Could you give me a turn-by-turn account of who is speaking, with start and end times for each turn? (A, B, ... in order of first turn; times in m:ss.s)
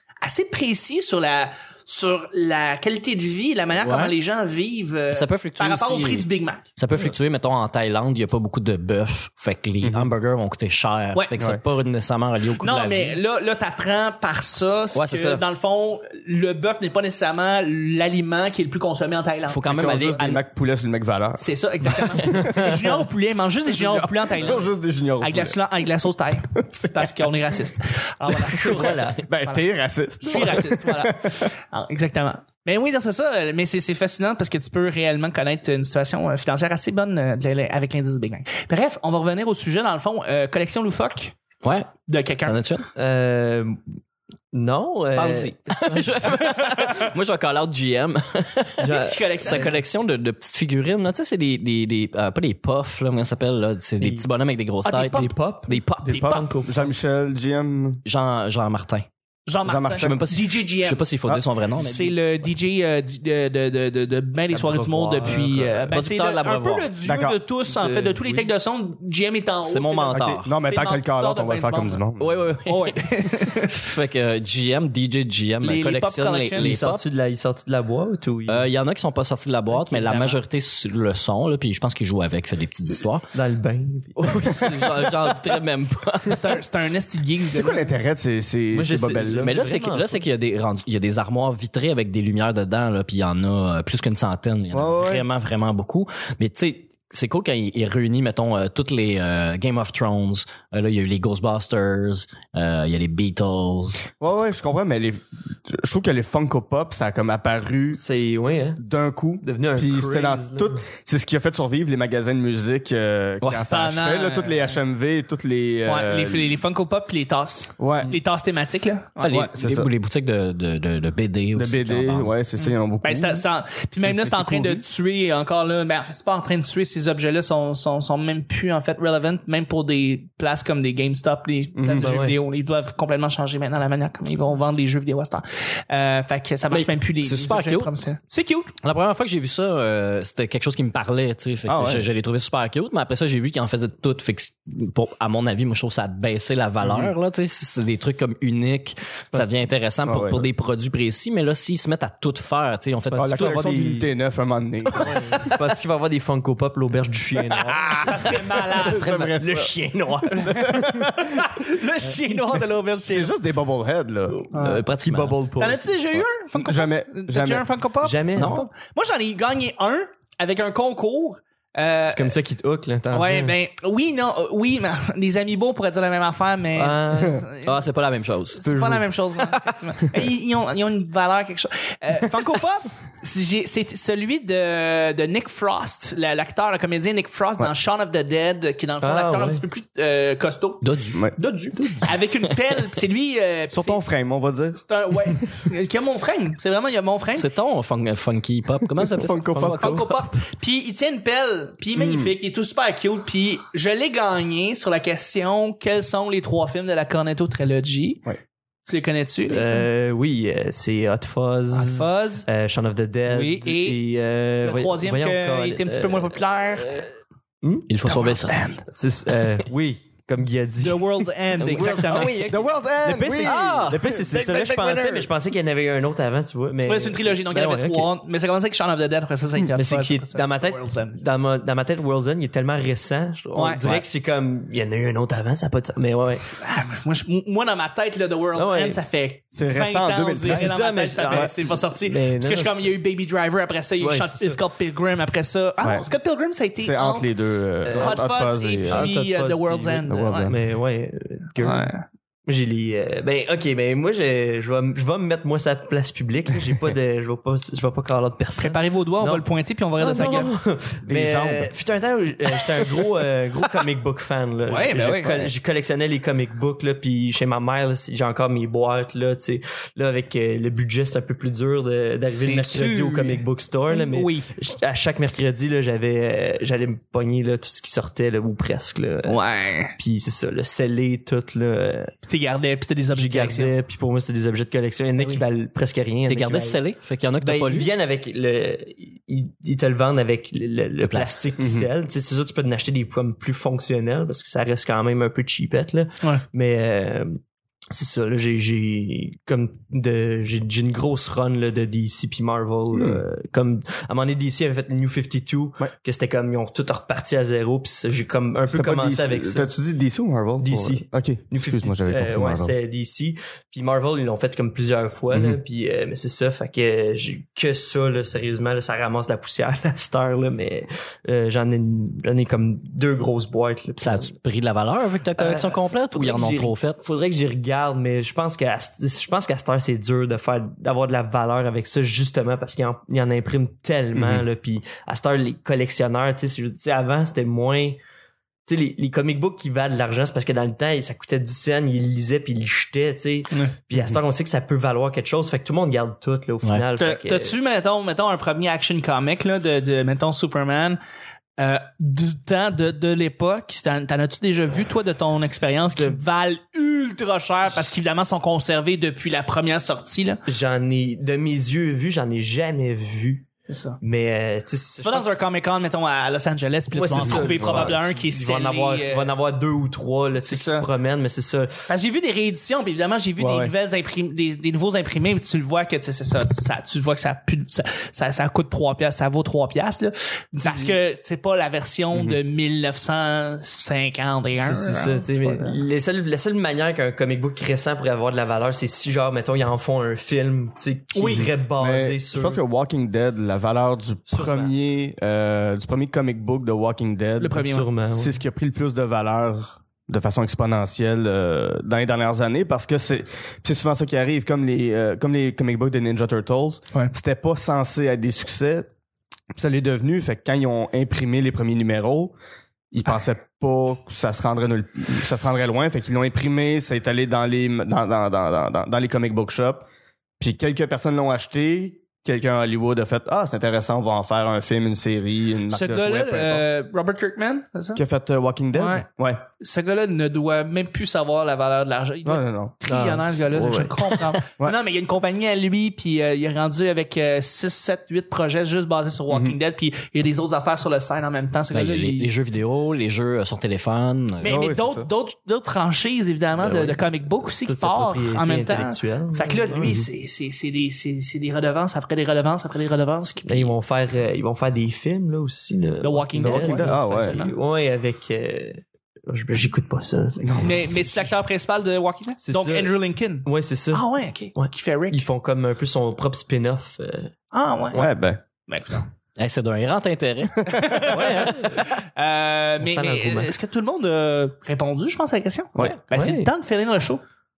0:00.2-0:06.7 A
0:03.8-0:04.1 B
0:05.1-0:13.2 B
0:09.8-0:10.1 C
0:12.6-0:20.3 A
0:15.0-0:15.4 B
0:19.5-0:20.4 B
0:19.7-0:22.2 C
0:21.4-0:29.6 A
0:23.7-0:25.6 C
0:26.7-0:27.1 C
0:28.6-0:29.2 D
0:29.2-0:31.5 C
0:30.2-0:41.4 A
0:41.6-0:41.9 B
0:42.1-0:42.6 A
0:42.4-0:42.9 B
0:43.0-0:44.0 D
0:44.5-0:46.4 D
0:45.2-0:56.4 B
0:48.8-0:49.8 D
0:48.9-0:49.8 A
0:54.0-0:54.3 D
0:54.9-0:56.8 D
0:56.0-0:58.0 C
0:56.1-0:56.5 A
0:58.1-0:59.1 B
0:59.5-1:01.1 A
0:59.6-1:00.2 C
1:00.0-1:02.2 B
1:01.8-1:12.0 A
1:04.5-1:06.0 D
1:05.9-1:06.9 B
1:07.0-1:07.4 C
1:07.7-1:08.5 D
1:09.6-1:10.5 B
1:10.1-1:12.5 C
1:12.2-1:17.0 B
1:12.7-1:13.8 A
1:15.6-1:16.8 A
1:16.6-1:18.7 D
1:18.5-1:23.3 B
1:19.7-1:20.4 A
1:23.3-1:25.4 D
1:24.2-1:26.6 B
1:26.2-1:27.9 A
1:27.5-1:29.6 C
1:28.7-1:30.2 D
1:29.4-1:44.0 B
1:34.7-1:35.2 C
1:44.2-1:48.0 C
1:47.9-1:48.8 D
1:48.8-1:56.6 C
1:49.4-1:50.8 D
1:53.7-1:54.8 A
1:55.8-1:59.5 A
1:57.8-1:58.2 C
1:59.2-2:02.3 B
1:59.5-1:59.9 C
2:01.6-2:03.4 C
2:02.6-2:18.7 A
2:04.0-2:04.8 C
2:11.8-2:12.2 C
2:12.0-2:12.4 D
2:16.7-2:17.9 B
2:18.8-2:33.8 B
2:21.7-2:22.1 C
2:26.8-2:27.1 C
2:29.3-2:29.6 D
2:30.0-2:30.5 C
2:33.1-2:34.1 D
2:33.2-2:35.3 C
2:35.0-2:38.1 D
2:37.7-2:39.8 C
2:38.0-2:39.3 A
2:39.0-2:40.9 D
2:40.3-2:43.3 A
2:40.4-2:41.4 C
2:43.1-2:44.4 C
2:44.3-2:45.9 D
2:44.5-2:44.8 A
2:44.6-2:45.4 B
2:45.6-2:52.4 A
2:46.5-2:47.7 C
2:48.0-2:48.7 D
2:48.4-2:48.7 B
2:52.1-2:53.6 D
2:53.1-2:57.8 A
2:56.8-2:57.5 D
2:57.6-2:58.8 B
2:58.6-3:14.0 A
2:58.6-2:59.1 D
3:09.0-3:09.6 D
3:10.8-3:11.2 B
3:11.1-3:12.0 C
3:13.7-3:14.8 C
3:14.8-3:17.5 A
3:17.4-3:20.2 B
3:19.0-3:20.0 C
3:19.5-3:20.0 D
3:19.8-3:28.2 A
3:22.0-3:22.3 C
3:28.9-3:29.9 A
3:29.5-3:37.1 D
3:31.7-3:32.5 A
3:33.3-3:34.0 A
3:34.6-3:37.0 A
3:37.6-3:37.9 D
3:37.9-3:38.6 B
3:38.0-3:38.8 A
3:38.9-3:48.1 D
3:40.8-3:42.4 A
3:41.6-3:42.5 B
3:42.5-3:45.3 C
3:43.4-3:45.2 B
3:46.9-3:51.2 A
3:49.8-3:56.5 D
3:53.6-3:53.8 A
3:56.6-4:07.3 A
3:58.6-3:59.0 D
3:59.5-4:01.5 C
4:00.5-4:02.9 D
4:04.0-4:04.6 D
4:06.8-4:09.1 C
4:07.8-4:10.5 A
4:07.9-4:08.3 D
4:08.9-4:11.9 D
4:10.1-4:10.6 C
4:11.6-4:12.0 A
4:12.5-4:19.4 D
4:18.6-4:20.5 A
4:20.0-4:39.4 D
4:21.0-4:21.7 C
4:24.7-4:25.5 A
4:32.3-4:34.5 A
4:39.3-4:40.0 A
4:40.0-4:42.1 D
4:42.2-4:43.7 A
4:43.1-4:46.8 D
4:45.2-4:45.4 A
4:46.3-4:47.9 B
4:47.4-4:57.4 D
4:51.0-4:51.4 B
4:51.6-4:51.9 C
4:57.9-5:09.7 D
5:02.9-5:03.2 C
5:08.7-5:12.8 C
5:10.6-5:24.3 D
5:15.3-5:15.6 C
5:24.0-5:27.0 B
5:25.4-5:38.0 D
5:34.1-5:34.5 C
5:38.7-5:47.6 D
5:43.9-5:44.2 C
5:47.0-5:51.0 A
5:51.6-6:00.4 A
6:00.5-6:03.5 D
6:03.7-6:04.0 A
6:04.0-6:05.4 D
6:05.0-6:09.3 A
6:06.9-6:11.7 D
6:07.1-6:08.0 C
6:10.4-6:10.9 A
6:11.9-6:25.8 A
6:13.4-6:13.7 C
6:22.1-6:22.4 C
6:24.6-6:32.6 D
6:31.1-6:31.5 A
6:31.3-6:48.9 C
6:34.3-6:34.7 D
6:37.4-6:37.9 A
6:37.6-6:38.4 D
6:49.5-6:52.4 C
6:52.9-6:59.9 C
7:00.4-7:06.7 C
7:05.7-7:08.0 A
7:08.0-7:09.4 C
7:08.7-7:09.0 A
7:09.6-7:22.3 A
7:12.2-7:12.8 C
7:12.9-7:14.2 D
7:19.3-7:19.6 C
7:21.7-7:24.6 B
7:24.4-7:25.1 C
7:24.4-7:33.8 A
7:26.6-7:30.0 D
7:33.5-7:40.8 D
7:36.0-7:37.5 A
7:36.4-7:37.4 C
7:40.4-7:41.3 C
7:40.6-7:45.2 A
7:42.4-7:47.3 D
7:47.5-7:48.1 A
7:47.9-7:48.4 C
7:48.7-7:49.1 A
7:49.4-7:51.1 B
7:50.6-7:51.1 C
7:50.7-7:57.2 A
7:51.1-7:51.9 D
7:52.8-7:53.5 D
7:56.1-7:56.5 D